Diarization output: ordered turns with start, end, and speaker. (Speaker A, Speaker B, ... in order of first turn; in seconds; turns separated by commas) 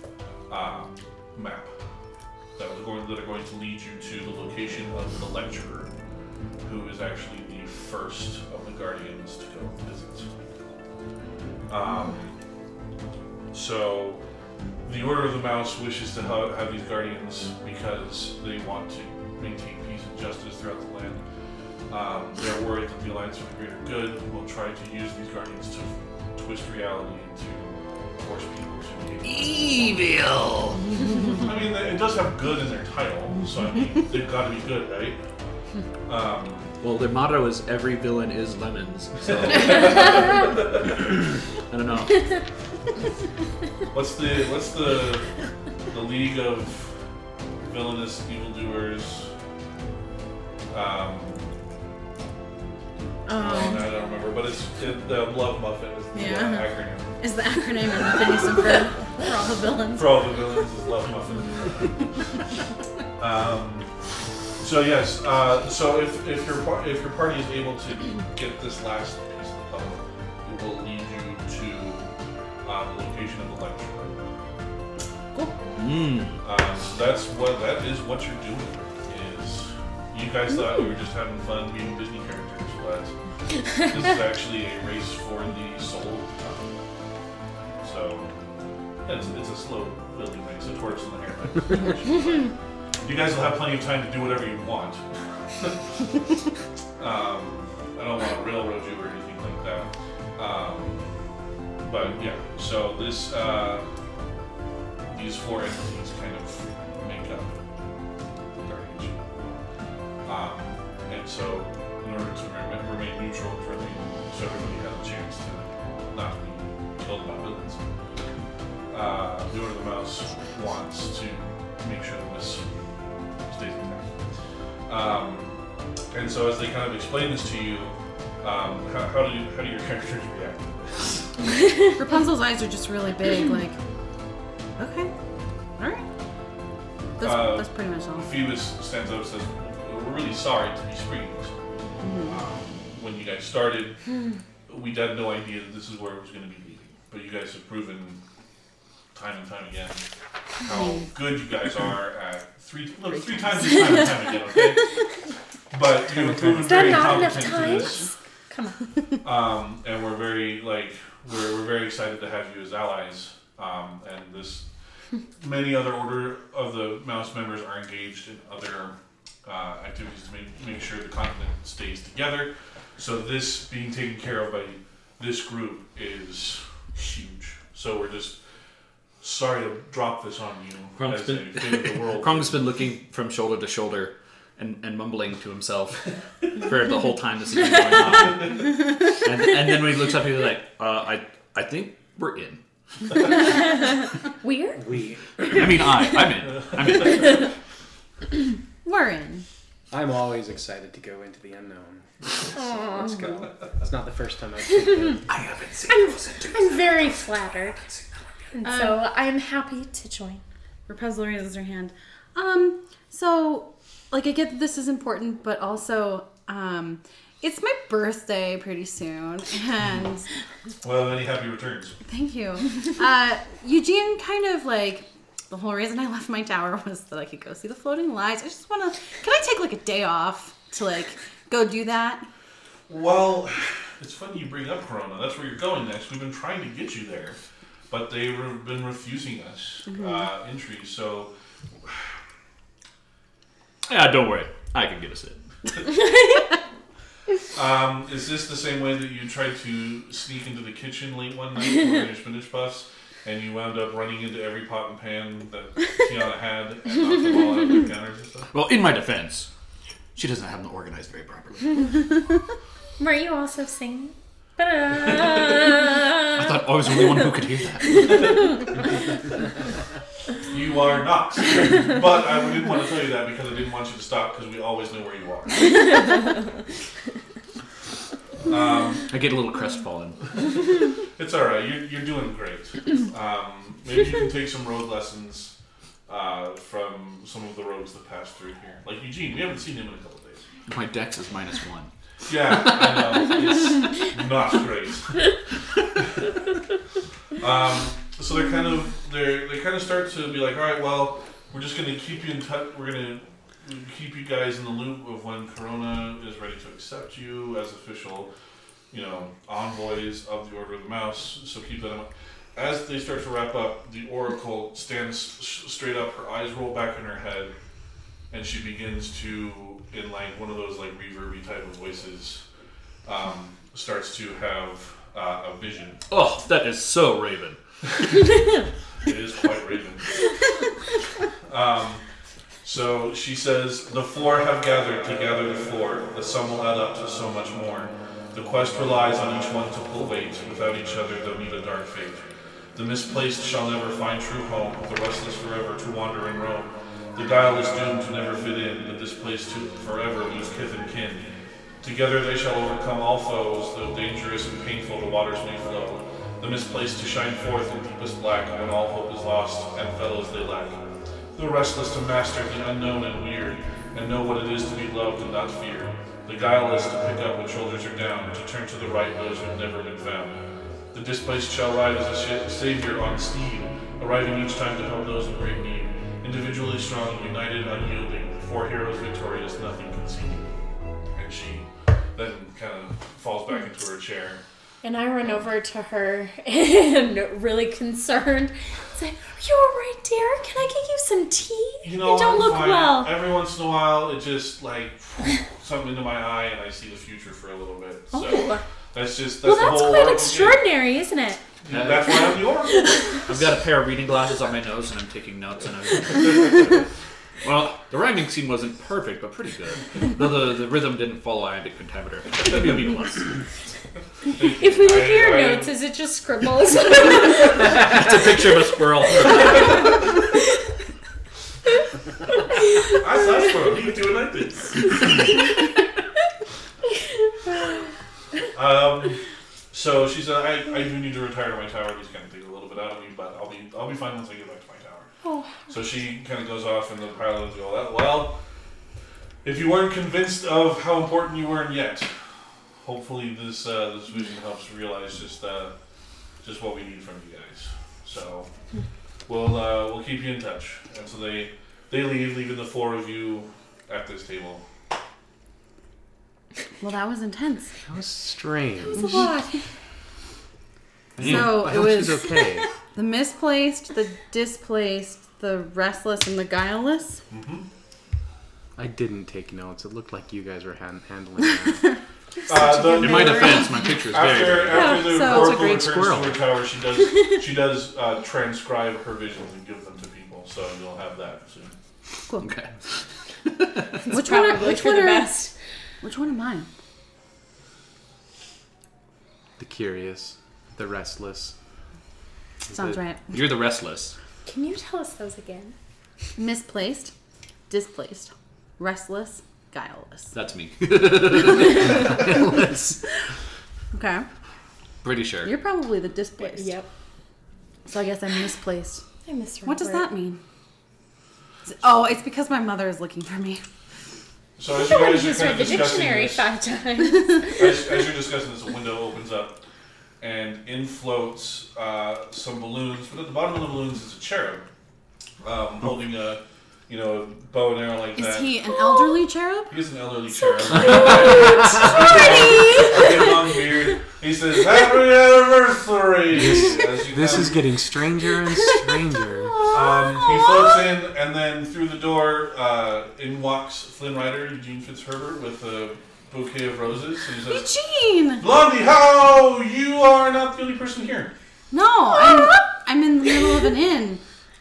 Speaker A: 0.5-1.7, Speaker A: 2.6-5.9, Speaker A: 6.6-10.3, Speaker A: 11.7-12.3, Speaker A: 13.5-14.2, Speaker A: 14.8-21.2, Speaker A: 21.9-29.9, Speaker B: 29.2-30.8, Speaker A: 31.4-35.2, Speaker A: 36.1-36.7, Speaker B: 36.8-40.6, Speaker A: 39.3-40.7, Speaker B: 41.7-42.3, Speaker A: 43.9-45.3, Speaker A: 45.9-47.0, Speaker A: 47.6-49.3, Speaker A: 50.7-51.4, Speaker C: 53.3-53.9, Speaker A: 53.4-57.2, Speaker C: 56.1-60.3, Speaker A: 60.0-62.1, Speaker A: 63.2-63.9, Speaker A: 64.6-72.1, Speaker A: 72.6-74.2, Speaker B: 75.8-76.4, Speaker A: 76.4-83.1, Speaker A: 83.8-86.6, Speaker A: 87.8-88.3, Speaker A: 89.0-92.5, Speaker A: 93.0-96.0, Speaker A: 97.0-101.1, Speaker A: 101.8-103.9, Speaker A: 105.1-107.6, Speaker A: 108.6-109.5, Speaker A: 110.2-117.8, Speaker A: 118.9-122.7, Speaker A: 123.5-124.2, Speaker A: 124.9-125.5, Speaker A: 126.1-131.3, Speaker C: 132.0-133.8, Speaker C: 134.8-135.1, Speaker C: 135.8-136.1, Speaker C: 137.2-138.3, Speaker A: 137.2-141.6, Speaker C: 142.0-142.4, Speaker A: 142.2-144.0, Speaker A: 144.7-148.2, Speaker A: 149.1-150.0, Speaker A: 150.6-154.9, Speaker C: 150.7-151.1, Speaker C: 153.4-153.8, Speaker A: 155.7-158.1, Speaker D: 156.2-157.0, Speaker E: 156.6-158.8, Speaker A: 159.2-164.7, Speaker A: 165.4-178.4, Speaker A: 179.2-182.6, Speaker B: 181.0-192.6, Speaker E: 194.4-194.8, Speaker D: 194.8-195.8, Speaker B: 195.5-197.5, Speaker C: 198.8-199.4, Speaker D: 199.9-205.3, Speaker E: 202.6-203.2, Speaker B: 205.3-208.1, Speaker E: 205.9-207.8, Speaker E: 208.5-210.4, Speaker C: 208.6-209.0, Speaker C: 210.9-220.3, Speaker A: 220.8-222.0, Speaker C: 222.1-232.3, Speaker A: 232.9-237.4, Speaker A: 237.9-241.3, Speaker C: 239.9-240.3, Speaker A: 241.8-242.1, Speaker B: 243.9-245.4, Speaker E: 245.9-246.4, Speaker A: 247.5-258.5, Speaker B: 258.5-259.5, Speaker B: 260.1-262.1, Speaker E: 263.0-266.1, Speaker B: 266.3-268.5, Speaker E: 268.0-268.6, Speaker A: 270.5-275.7, Speaker A: 278.4-279.1, Speaker B: 279.1-280.3, Speaker A: 281.0-285.5, Speaker A: 286.1-290.5, Speaker B: 290.7-291.9, Speaker A: 292.3-295.2, Speaker A: 296.0-296.3, Speaker A: 297.4-308.3, Speaker A: 308.9-317.5, Speaker A: 318.3-322.4, Speaker A: 323.1-326.0, Speaker B: 326.1-327.6, Speaker A: 329.0-330.2, Speaker A: 331.4-332.0, Speaker A: 332.6-384.4, Speaker E: 384.8-393.1, Speaker A: 391.8-400.6, Speaker E: 398.1-398.6, Speaker E: 399.4-401.4, Speaker A: 401.6-403.2, Speaker B: 401.7-402.3, Speaker E: 402.7-403.2, Speaker B: 403.2-406.8, Speaker B: 407.4-413.3, Speaker A: 414.2-415.7, Speaker E: 414.6-417.8, Speaker B: 417.6-419.9, Speaker E: 422.7-423.0, Speaker A: 422.9-425.3, Speaker A: 428.5-435.1, Speaker E: 435.2-435.7, Speaker A: 435.7-438.4, Speaker A: 439.4-442.1, Speaker A: 442.8-445.7, Speaker A: 446.4-448.5, Speaker A: 449.3-454.6, Speaker C: 456.8-457.7, Speaker D: 457.9-459.3, Speaker E: 458.9-459.6, Speaker C: 459.0-459.3, Speaker D: 461.2-462.7, Speaker C: 461.2-467.2, Speaker A: 467.3-467.7, Speaker D: 468.8-472.0, Speaker A: 472.5-481.7, Speaker C: 472.5-473.9, Speaker B: 472.9-475.0, Speaker E: 474.7-475.1, Speaker C: 474.8-475.8, Speaker D: 475.2-476.4, Speaker B: 482.4-484.0, Speaker E: 484.1-485.5, Speaker C: 484.1-485.4, Speaker C: 486.0-486.7, Speaker D: 489.6-491.5, Speaker C: 492.7-493.3, Speaker D: 492.7-493.0, Speaker B: 493.3-494.1, Speaker E: 494.4-495.8, Speaker C: 496.4-497.1, Speaker C: 497.7-500.3, Speaker B: 500.3-502.5, Speaker D: 502.0-503.0, Speaker C: 503.9-504.2, Speaker B: 505.0-505.5, Speaker C: 505.4-506.7, Speaker E: 506.4-506.9, Speaker C: 507.9-509.0, Speaker E: 509.3-510.1, Speaker C: 509.6-510.4, Speaker C: 511.7-513.6, Speaker A: 514.6-516.5, Speaker E: 514.7-517.8, Speaker A: 517.5-519.6, Speaker A: 520.2-524.6, Speaker A: 525.4-528.6, Speaker C: 528.2-529.8, Speaker A: 529.7-537.7, Speaker C: 530.7-533.1, Speaker E: 531.1-533.1, Speaker D: 536.3-539.7, Speaker C: 539.3-540.7, Speaker A: 539.7-547.7, Speaker C: 547.5-548.5, Speaker A: 548.4-551.3, Speaker C: 551.7-554.2, Speaker E: 552.2-552.6